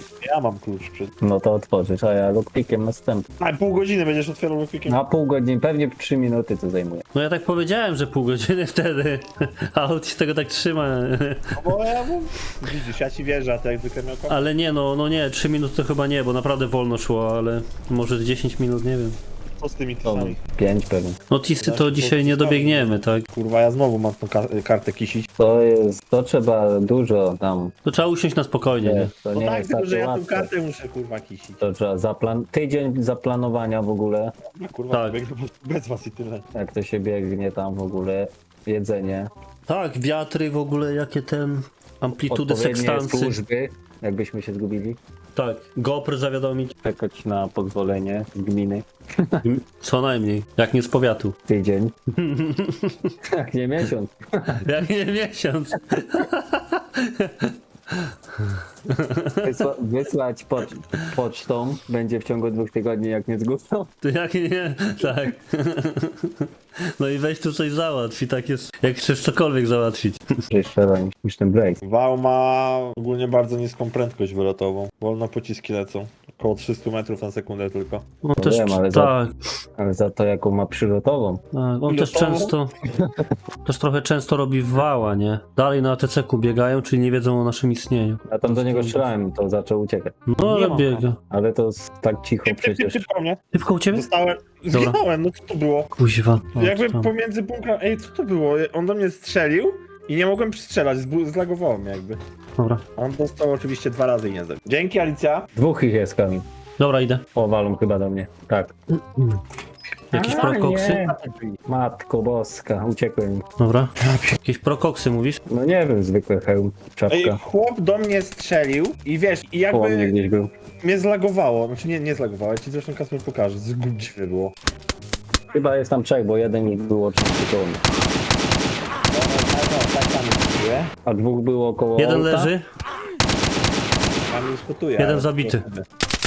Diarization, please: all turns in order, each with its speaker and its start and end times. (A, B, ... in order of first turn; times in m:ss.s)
0:00.2-0:01.1 A
0:01.2-0:03.3 B
0:03.4-0:05.0 A
0:04.9-0:07.0 B
0:07.1-0:11.7 C
0:11.5-0:14.5 A
0:14.3-0:19.2 C
0:19.6-0:20.4 A
0:20.0-0:21.2 B
0:21.3-0:23.2 C
0:21.6-0:25.3 A
0:25.4-0:27.7 B
0:27.8-0:29.1 C
0:28.8-0:30.5 B
0:29.3-0:31.6 A
0:31.6-0:34.3 B
0:34.5-0:36.4 A
0:34.9-0:35.2 C
0:36.5-0:39.3 B
0:39.7-0:43.4 C
0:42.3-0:45.0 B
0:45.3-0:46.7 C
0:46.8-0:49.5 B
0:49.4-0:51.4 C
0:51.5-0:51.9 B
0:52.2-0:53.1 C
0:53.3-0:54.6 B
0:54.6-0:59.7 C
0:59.4-1:03.9 B
1:04.0-1:10.2 C
1:10.5-1:11.8 B
1:11.8-1:18.0 A
1:18.2-1:19.3 C
1:18.4-1:19.1 B
1:19.8-1:21.4 B
1:21.5-1:22.7 C
1:21.9-1:22.5 A
1:23.0-1:23.2 B
1:23.6-1:29.0 C
1:28.3-1:30.2 B
1:30.3-1:31.2 C
1:30.4-1:31.0 A
1:31.3-1:33.0 B
1:32.4-1:35.9 A
1:33.5-1:34.1 C
1:34.7-1:35.0 C
1:35.9-1:37.1 C
1:36.5-1:42.2 A
1:43.0-1:45.5 A
1:45.5-1:46.4 B
1:46.8-1:47.2 C
1:47.3-1:48.7 B
1:49.1-1:49.4 C
1:50.1-1:51.1 C
1:50.1-1:51.1 B
1:51.2-1:51.6 A
1:51.7-1:53.4 B
1:53.6-1:55.4 C
1:54.0-1:54.4 A
1:55.5-1:57.4 B
1:57.1-2:00.1 A
1:59.7-2:00.5 B
2:00.8-2:04.5 A
2:05.5-2:07.8 B
2:09.1-2:10.9 A
2:11.0-2:12.5 B
2:12.0-2:12.6 C
2:14.3-2:15.8 A
2:15.0-2:15.6 C